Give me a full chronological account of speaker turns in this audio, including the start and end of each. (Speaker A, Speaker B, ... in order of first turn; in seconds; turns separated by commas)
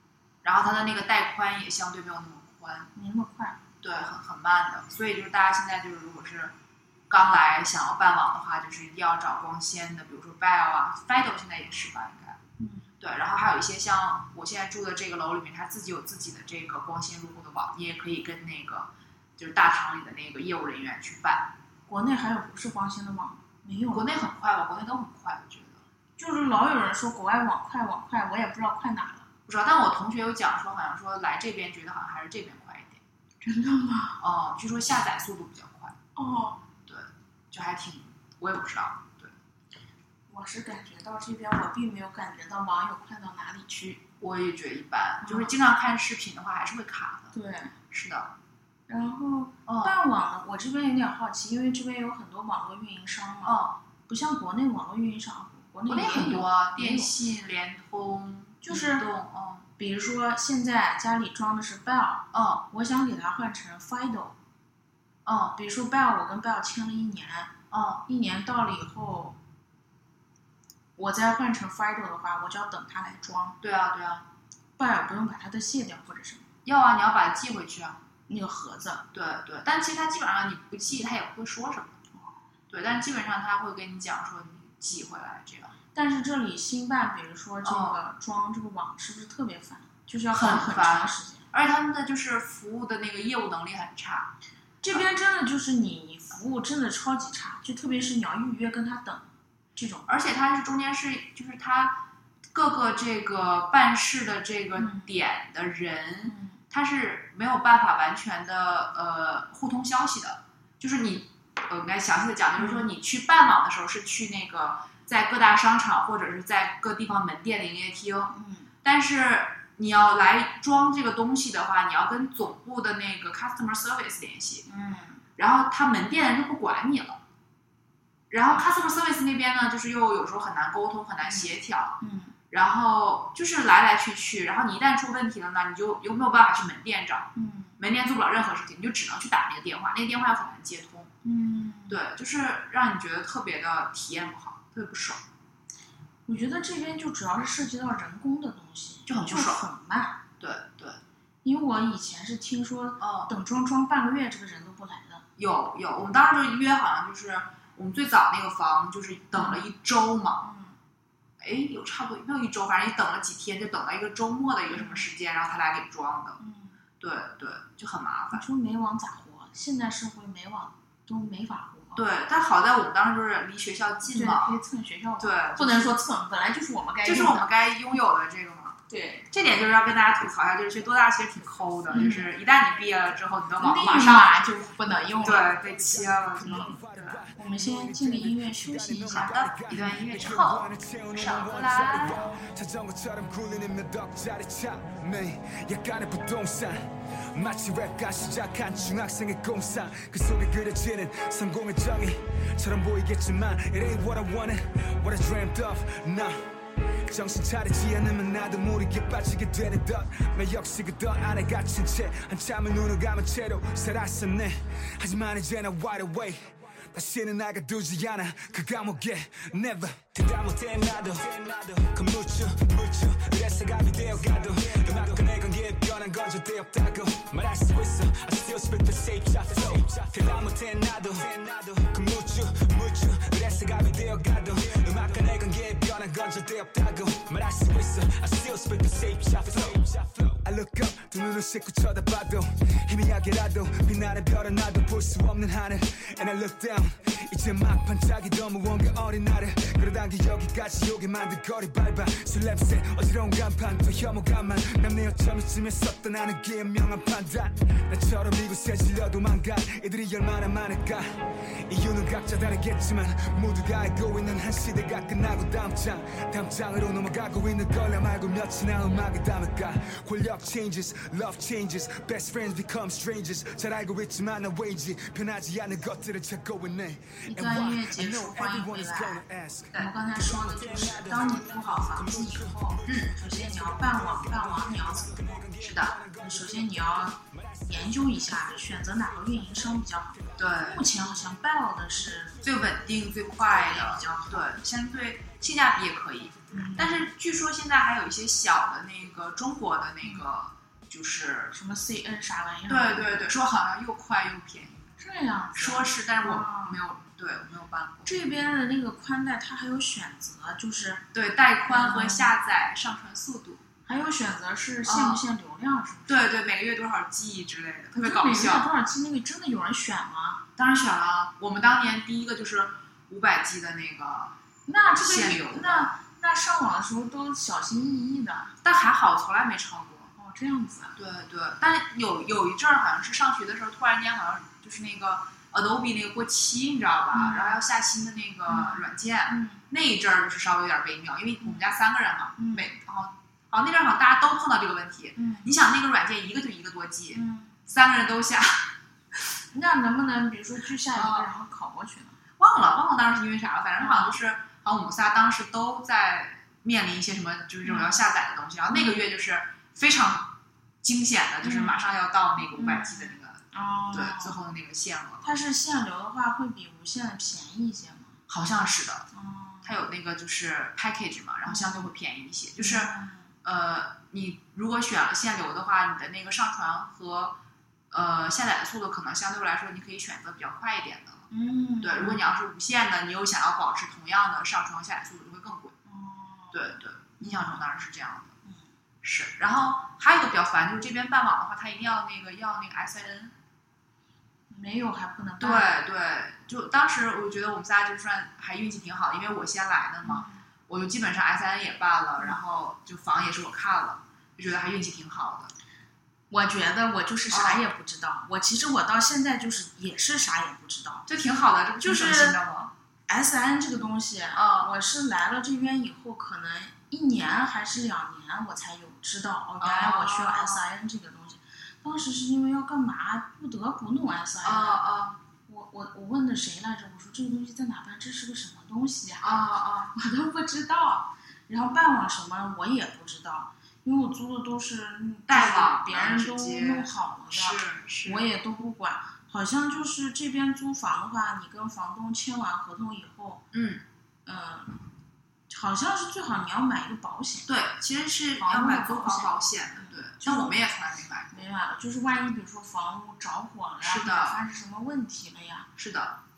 Speaker A: 0.4-2.9, Speaker B: 2.9-3.6, Speaker A: 3.8-6.5, Speaker A: 7.1-12.4, Speaker B: 12.6-12.9, Speaker A: 13.0-21.5, Speaker B: 21.9-24.1, Speaker A: 23.9-25.8, Speaker B: 26.2-29.3, Speaker A: 29.4-33.0, Speaker B: 33.4-34.2, Speaker A: 34.2-36.0, Speaker B: 36.1-36.6, Speaker A: 36.9-39.3, Speaker B: 40.3-44.0, Speaker A: 44.2-47.3, Speaker B: 45.2-45.5, Speaker B: 47.3-47.8, Speaker A: 47.9-48.3, Speaker B: 48.9-57.1, Speaker A: 49.6-49.9, Speaker A: 53.4-53.8, Speaker A: 55.9-59.7, Speaker B: 58.6-59.0, Speaker B: 59.8-64.3, Speaker A: 62.3-62.6, Speaker A: 65.2-65.6, Speaker B: 65.5-67.5, Speaker A: 67.7-68.0, Speaker B: 68.0-69.4, Speaker B: 71.0-73.6, Speaker A: 73.6-74.3, Speaker B: 74.8-76.5, Speaker A: 76.6-78.0, Speaker B: 78.3-79.0, Speaker A: 79.1-82.0, Speaker A: 82.7-85.8, Speaker B: 85.9-91.5, Speaker A: 87.6-88.0, Speaker A: 90.3-94.3, Speaker B: 94.8-100.1, Speaker A: 100.1-124.7, Speaker B: 104.7-105.1, Speaker B: 106.2-106.6, Speaker B: 112.6-112.9, Speaker B: 118.3-118.7, Speaker B: 124.7-125.2, Speaker A: 125.4-127.2, Speaker A: 128.3-132.0, Speaker B: 131.2-132.3, Speaker A: 132.5-141.1, Speaker B: 137.3-137.8, Speaker B: 141.2-142.0, Speaker A: 141.9-145.2, Speaker B: 146.3-150.2, Speaker A: 149.1-149.7, Speaker A: 150.4-151.0, Speaker B: 151.4-155.2, Speaker A: 153.0-153.3, Speaker A: 155.4-160.5, Speaker B: 159.3-159.6, Speaker B: 160.4-160.8, Speaker A: 161.4-166.4, Speaker B: 164.7-165.1, Speaker B: 166.4-166.8, Speaker A: 167.0-168.4, Speaker B: 168.3-172.0, Speaker A: 171.9-174.6, Speaker B: 174.1-177.5, Speaker A: 175.2-176.0, Speaker A: 177.0-178.8, Speaker B: 178.9-179.3, Speaker A: 179.3-184.4, Speaker C: 181.4-206.4, Speaker B: 181.9-182.3, Speaker B: 183.6-185.6, Speaker A: 185.2-187.2, Speaker B: 186.4-186.8, Speaker B: 187.3-189.4, Speaker A: 189.1-192.3, Speaker C: 207.0-261.1, Speaker C: 261.6-289.6, Speaker B: 277.2-285.5, Speaker A: 282.9-283.1, Speaker A: 285.6-286.0, Speaker B: 286.1-292.4, Speaker A: 290.4-290.9, Speaker A: 292.4-301.5, Speaker B: 293.4-294.5, Speaker B: 296.5-297.1, Speaker B: 301.5-303.3, Speaker A: 302.7-304.9, Speaker B: 305.0-306.8, Speaker A: 305.5-308.1, Speaker B: 308.0-311.1, Speaker A: 311.1-313.6, Speaker B: 311.6-312.3, Speaker B: 313.9-316.2, Speaker A: 314.8-315.2, Speaker A: 316.1-318.7, Speaker B: 317.9-320.4, Speaker A: 320.6-324.4, Speaker B: 324.6-328.5, Speaker A: 324.9-325.9, Speaker A: 328.6-330.1, Speaker B: 330.2-330.9, Speaker A: 330.9-348.7, Speaker B: 337.1-337.6, Speaker B: 338.5-339.6, Speaker B: 341.4-341.7, Speaker B: 342.4-342.7, Speaker B: 345.1-345.5, Speaker B: 347.1-347.6, Speaker B: 349.5-352.2, Speaker A: 350.9-351.3, Speaker A: 352.4-365.3, Speaker B: 353.8-354.2, Speaker B: 357.6-358.0, Speaker B: 358.7-359.0, Speaker B: 361.4-361.8, Speaker B: 362.5-364.4, Speaker B: 365.2-368.2, Speaker A: 368.3-369.1, Speaker B: 369.1-369.8, Speaker A: 369.6-377.4, Speaker B: 371.4-371.9, Speaker B: 372.6-373.3, Speaker A: 377.9-381.3, Speaker B: 381.3-382.2, Speaker A: 381.8-385.7, Speaker B: 385.9-387.6, Speaker A: 386.5-388.4, Speaker A: 389.0-393.3, Speaker B: 394.5-395.7, Speaker A: 395.4-405.5, Speaker B: 400.0-400.4, Speaker B: 406.3-411.1, Speaker A: 407.3-407.6, Speaker A: 411.1-412.7, Speaker B: 411.8-412.4, Speaker B: 413.1-424.9, Speaker A: 414.3-414.7, Speaker A: 419.6-420.6, Speaker A: 424.4-425.2, Speaker B: 425.5-429.3, Speaker A: 429.2-429.9, Speaker B: 429.9-443.4, Speaker A: 435.3-438.2, Speaker A: 443.5-443.8, Speaker B: 444.2-444.8, Speaker B: 445.5-447.5, Speaker A: 447.5-451.4, Speaker B: 448.4-450.7, Speaker B: 451.3-455.7, Speaker A: 453.8-454.4, Speaker A: 455.8-456.2